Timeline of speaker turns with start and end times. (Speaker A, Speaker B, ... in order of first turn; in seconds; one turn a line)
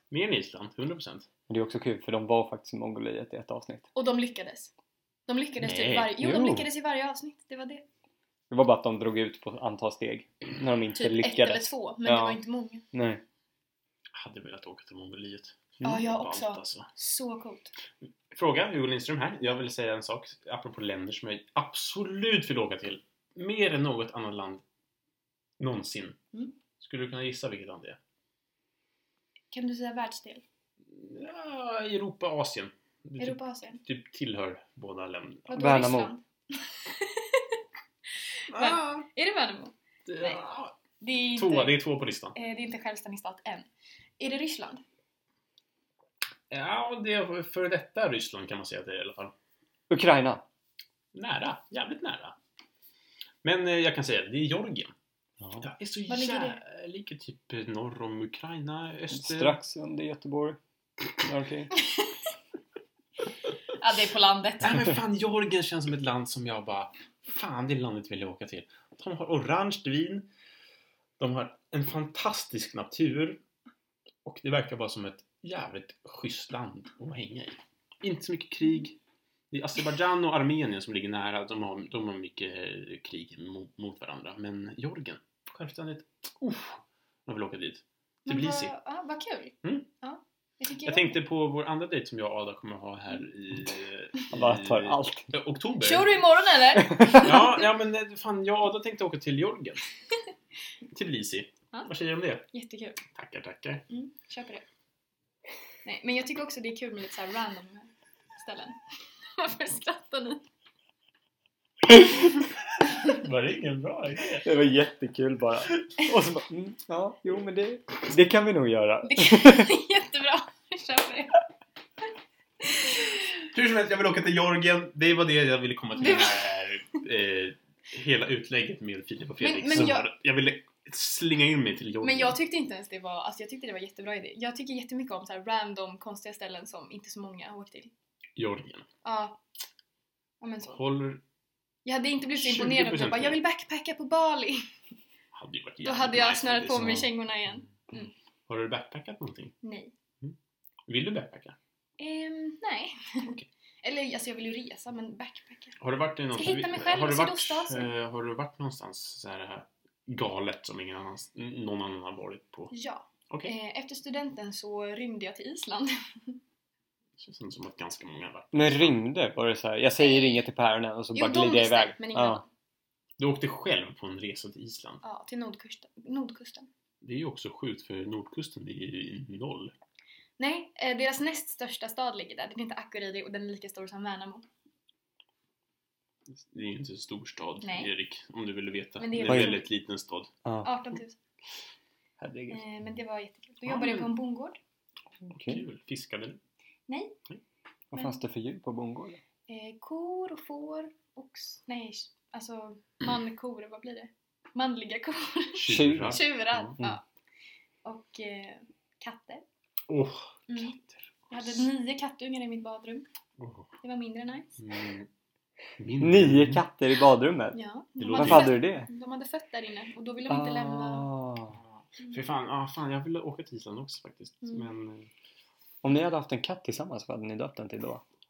Speaker A: 0.1-1.3
Speaker B: 1.5-3.9
Speaker C: 4.0-4.7
Speaker C: 5.3-7.8
Speaker A: 5.6-6.2
Speaker B: 6.2-6.7
Speaker B: 8.5-12.4
Speaker C: 11.0-12.8
Speaker B: 12.9-13.2
Speaker A: 14.1-16.9
Speaker C: 15.8-17.7
Speaker A: 18.3-24.6
Speaker A: 25.6-26.2
Speaker A: 26.8-28.0
Speaker C: 29.5-30.4
Speaker A: 30.9-35.6
Speaker C: 33.2-33.8
Speaker C: 35.5-37.6
Speaker B: 35.6-36.1
Speaker C: 38.5-40.4
Speaker A: 38.5-39.0
Speaker A: 40.1-40.8
Speaker C: 41.0-41.8
Speaker A: 41.4-42.4
Speaker C: 42.3-43.7
Speaker C: 44.2-44.8
Speaker A: 46.5-49.3
Speaker B: 49.9-50.4
Speaker A: 51.1-52.4
Speaker A: 53.4-54.9
Speaker A: 55.6-59.6
Speaker C: 56.1-56.6
Speaker B: 59.1-60.6
Speaker B: 61.2-61.7
Speaker C: 61.8-62.1
Speaker C: 63.8-64.9
Speaker A: 64.6-70.3
Speaker A: 71.2-73.4
Speaker A: 74.2-79.0
Speaker A: 79.5-88.7
Speaker C: 88.3-91.2
Speaker A: 90.8-96.2
Speaker B: 94.3-95.3
Speaker C: 95.8-97.6
Speaker B: 96.8-97.4
Speaker A: 97.2-99.8
Speaker A: 100.9-102.5
Speaker C: 102.5-103.0
Speaker A: 103.1-103.8
Speaker C: 103.9-104.6
Speaker C: 105.8-108.8
Speaker C: 109.3-110.4
Speaker A: 113.0-114.5
Speaker B: 114.4-119.7
Speaker C: 119.0-121.4
Speaker C: 122.6-123.4
Speaker A: 123.5-132.4
Speaker C: 126.0-126.5
Speaker C: 129.4-130.1
Speaker C: 132.0-137.9
Speaker A: 138.4-138.9
Speaker C: 139.0-139.4
Speaker C: 140.4-140.8
Speaker A: 140.7-141.2
Speaker C: 141.8-144.7
Speaker A: 142.4-143.4
Speaker A: 145.3-147.1
Speaker C: 145.8-148.1
Speaker A: 148.5-149.6
Speaker C: 149.6-149.9
Speaker A: 150.9-151.6
Speaker C: 152.0-155.8
Speaker A: 155.8-162.7
Speaker C: 156.3-157.9
Speaker C: 162.7-166.4
Speaker A: 167.2-169.0
Speaker B: 168.5-172.4
Speaker C: 170.0-170.4
Speaker C: 171.1-172.5
Speaker A: 173.2-175.0
Speaker C: 175.0-176.7
Speaker A: 177.0-179.7
Speaker C: 180.4-184.5
Speaker A: 186.3-190.3
Speaker C: 187.6-187.9
Speaker C: 189.0-189.7
Speaker B: 189.3-189.6
Speaker B: 190.4-190.7
Speaker C: 190.6-191.2
Speaker B: 192.2-192.6
Speaker C: 192.5-194.6
Speaker A: 193.7-194.1
Speaker A: 195.3-196.4
Speaker B: 195.3-195.6
Speaker C: 196.9-197.2
Speaker B: 197.9-199.2
Speaker C: 199.5-207.0
Speaker A: 205.6-206.7
Speaker B: 205.7-206.2
Speaker C: 207.8-209.4
Speaker A: 209.9-211.6
Speaker C: 210.5-210.8
Speaker C: 211.3-213.1
Speaker A: 213.4-213.7
Speaker C: 213.8-214.6
Speaker A: 214.6-215.1
Speaker A: 215.8-216.6
Speaker B: 216.0-217.6
Speaker C: 217.5-221.1
Speaker A: 218.0-218.6
Speaker B: 218.2-218.9
Speaker B: 220.3-221.6
Speaker A: 221.5-225.1
Speaker B: 225.8-228.0